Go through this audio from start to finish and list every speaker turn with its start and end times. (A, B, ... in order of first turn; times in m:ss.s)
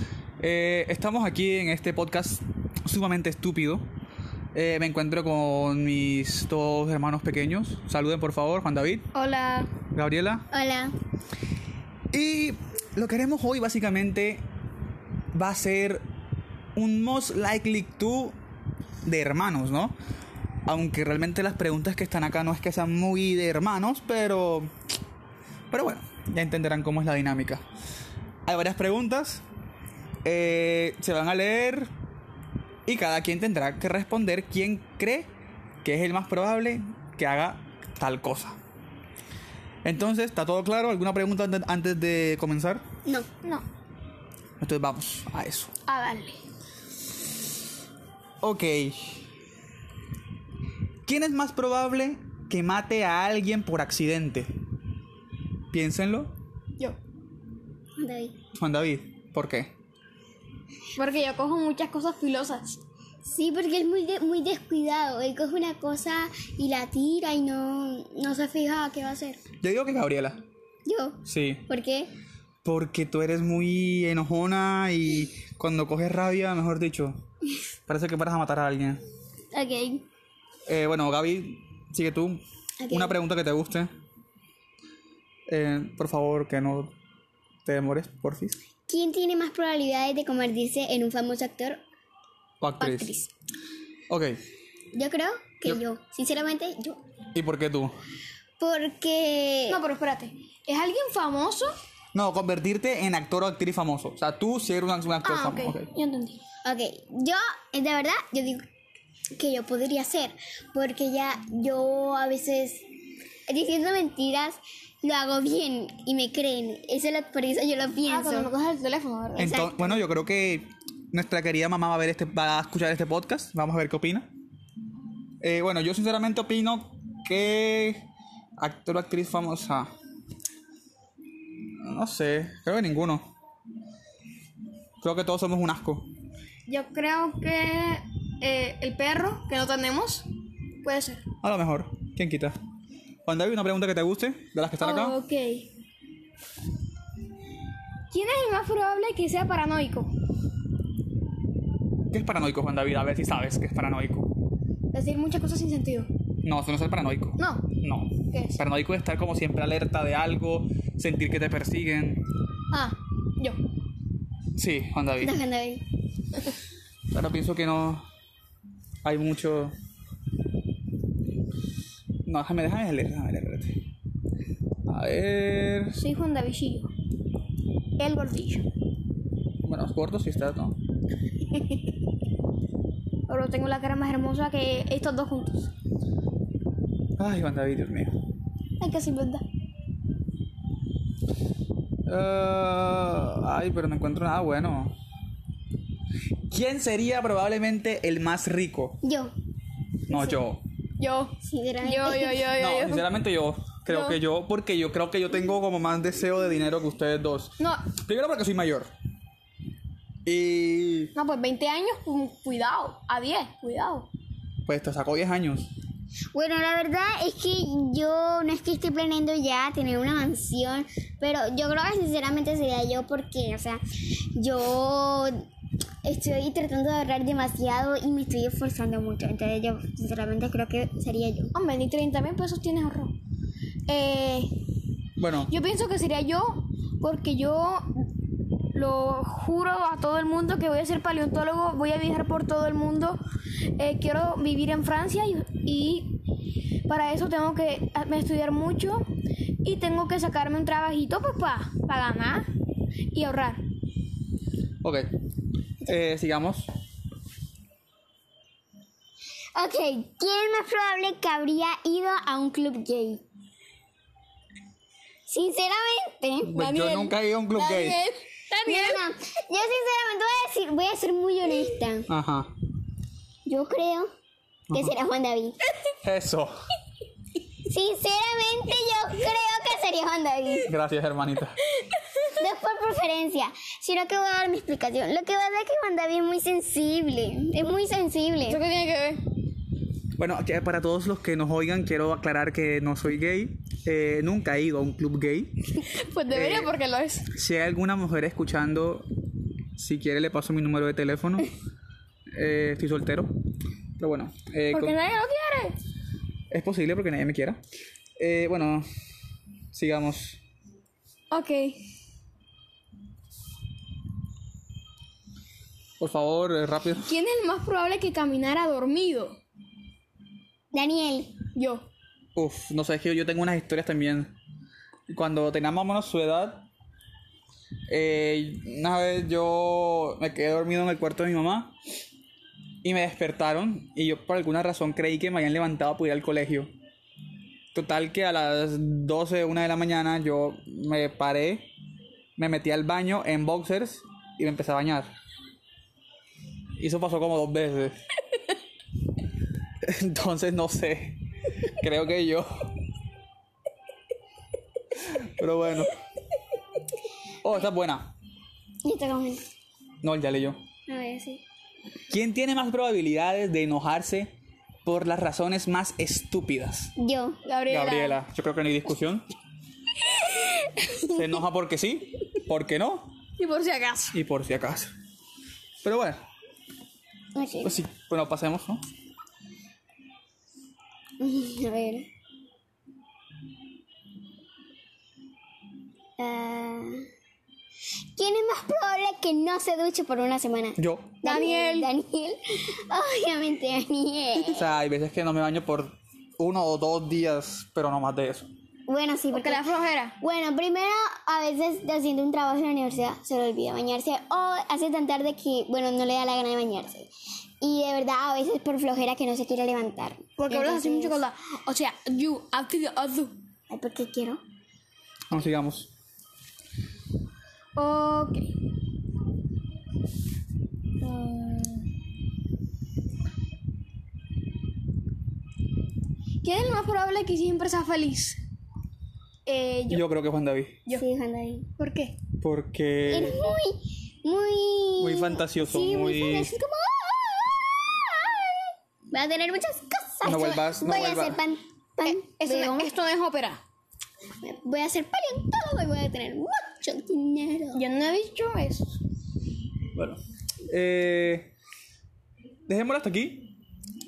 0:00.4-0:03.9 A
0:04.5-0:09.1 A
0:09.1-0:09.7 B
0:09.9-0:10.5 A
0:10.5-0:10.9 C
0:12.1-0:14.4 A
0:15.3-0:16.0 A
0:16.8-0:18.4 A
0:19.0-0:19.9 A
0:20.6-0:24.7 A
0:25.7-0:27.6 A
0:28.4-0:29.4 A
0:30.2-0:31.9 A
0:32.8-0:35.3 A
0:35.8-0:38.6 A
0:39.8-0:42.8 A
0:44.6-0:45.7 A
0:45.9-0:46.4 B
0:48.4-0:49.2 A
0:51.0-0:54.5 A
0:55.7-0:56.3 A
0:58.0-0:58.4 C
0:58.6-0:59.7 A
1:00.9-1:02.8 B
1:03.2-1:09.4 C
1:09.6-1:10.4 A
1:10.8-1:12.1 C
1:11.2-1:11.6 A
1:12.6-1:17.2 A
1:17.9-1:19.0 A
1:19.5-1:20.0 C
1:20.7-1:23.9 A
1:22.8-1:23.2 C
1:25.5-1:26.9 A
1:27.6-1:28.6 A
1:28.9-1:31.8 C
1:32.6-1:33.1 A
1:32.8-1:33.3 C
1:34.1-1:34.4 A
1:34.9-1:37.0 C
1:37.3-1:37.9 A
1:38.6-1:39.8 C
1:39.7-1:41.7 B
1:42.1-1:45.9 A
1:45.2-1:46.4 B
1:46.6-1:48.6 C
1:49.4-1:52.8 C
1:53.5-1:58.5 C
1:58.1-1:59.6 B
1:59.4-2:00.0 C
1:59.4-2:04.3 A
2:05.4-2:08.0 A
2:08.6-2:09.9 A
2:11.8-2:13.3 A
2:15.0-2:16.1 A
2:16.7-2:20.3 B
2:20.8-2:21.2 B
2:21.4-2:22.6 A
2:23.2-2:25.2 A
2:24.8-2:25.7 B
2:28.1-2:30.1 B
2:32.1-2:34.3 A
2:34.9-2:36.1 B
2:36.4-2:42.2 A
2:37.4-2:37.6 B
2:38.3-2:38.6 B
2:42.7-2:43.6 B
2:44.6-2:45.4 A
2:45.2-2:45.8 C
2:47.1-2:48.0 A
2:49.0-2:49.7 A
2:52.2-2:53.8 A
2:54.8-2:56.0 A
2:55.9-2:56.9 B
2:58.0-2:58.6 B
2:59.6-3:00.8 A
3:03.3-3:05.7 B
3:07.2-3:08.2 A
3:08.8-3:09.4 B
3:12.0-3:15.0 A
3:16.5-3:19.0 A
3:19.0-3:19.3 C
3:20.1-3:20.6 A
3:21.0-3:23.1 B
3:21.4-3:22.5 C
3:22.6-3:28.9 A
3:23.8-3:24.2 B
3:27.6-3:27.8 B
3:30.2-3:31.1 A
3:31.1-3:34.1 B
3:34.6-3:35.7 A
3:36.3-3:43.8 C
3:44.3-3:45.4 C
3:46.0-3:51.5 C
3:51.5-3:53.2 B
3:53.9-3:54.6 B
3:55.2-3:55.5 A
3:55.5-3:58.0 B
3:58.7-4:03.2 B
4:03.8-4:06.2 B
4:06.9-4:09.1 B
4:09.6-4:12.5 B
4:13.1-4:13.6 B
4:14.8-4:15.1 A
4:15.8-4:16.7 A
4:19.5-4:23.2 C
4:25.3-4:26.6 C
4:26.5-4:28.0 A
4:26.6-4:29.0 B
4:28.6-4:32.1 C
4:32.1-4:32.5 A
4:33.4-4:34.1 C
4:34.7-4:35.6 C
4:36.0-4:36.5 A
4:37.6-4:40.7 C
4:40.7-4:41.6 A
4:42.3-4:48.6 C
4:48.5-4:49.2 B
4:50.2-4:55.5 A
4:55.9-4:57.3 B
4:56.3-4:56.7 A
4:57.3-4:59.1 A
4:59.8-5:01.5 A
5:02.3-5:03.3 A
5:04.0-5:04.9 A
5:04.7-5:05.8 B
5:06.5-5:07.6 A
5:08.2-5:08.9 A
5:09.7-5:10.4 A
5:11.3-5:11.8 B
5:16.0-5:17.1 A
5:17.0-5:19.4 B
5:20.7-5:21.4 C
5:21.5-5:21.9 B
5:22.4-5:24.3 A
5:25.1-5:26.7 A
5:27.9-5:31.7 A
5:32.8-5:36.7 A
5:37.7-5:41.7 A
5:42.4-5:45.1 A
5:46.8-5:47.9 A
5:49.8-5:52.5 A
5:55.1-5:55.9 A
5:57.4-5:58.1 A
5:58.8-5:59.4 C
6:00.0-6:00.6 A
6:00.9-6:01.4 C
6:02.1-6:04.3 A
6:04.8-6:06.9 A
6:07.0-6:07.4 C
6:07.4-6:08.2 B
6:07.7-6:09.2 A
6:11.1-6:13.2 A
6:13.4-6:14.2 B
6:14.1-6:14.9 A
6:15.8-6:16.2 A
6:17.3-6:17.8 C
6:17.6-6:18.8 A
6:21.2-6:22.1 C
6:26.2-6:27.0 C
6:28.1-6:34.6 C
6:30.8-6:31.2 A
6:31.2-6:31.9 B
6:34.5-6:38.5 A
6:38.9-6:39.6 C
6:39.3-6:40.2 B
6:40.2-6:51.2 C
6:50.4-6:53.4 B
6:53.7-6:54.4 C
6:55.3-6:55.9 A
6:57.8-6:58.5 B
7:01.0-7:01.9 B
7:06.4-7:08.4 B
7:09.5-7:10.0 B
7:09.9-7:10.8 A
7:10.9-7:11.7 C
7:11.8-7:12.2 B
7:12.4-7:13.4 A
7:13.1-7:22.9 C
7:15.0-7:16.5 A
7:20.2-7:21.4 A
7:20.4-7:20.7 B
7:22.0-7:23.6 B
7:24.4-7:27.8 C
7:27.7-7:29.0 B
7:29.9-7:31.5 A
7:32.7-7:33.5 A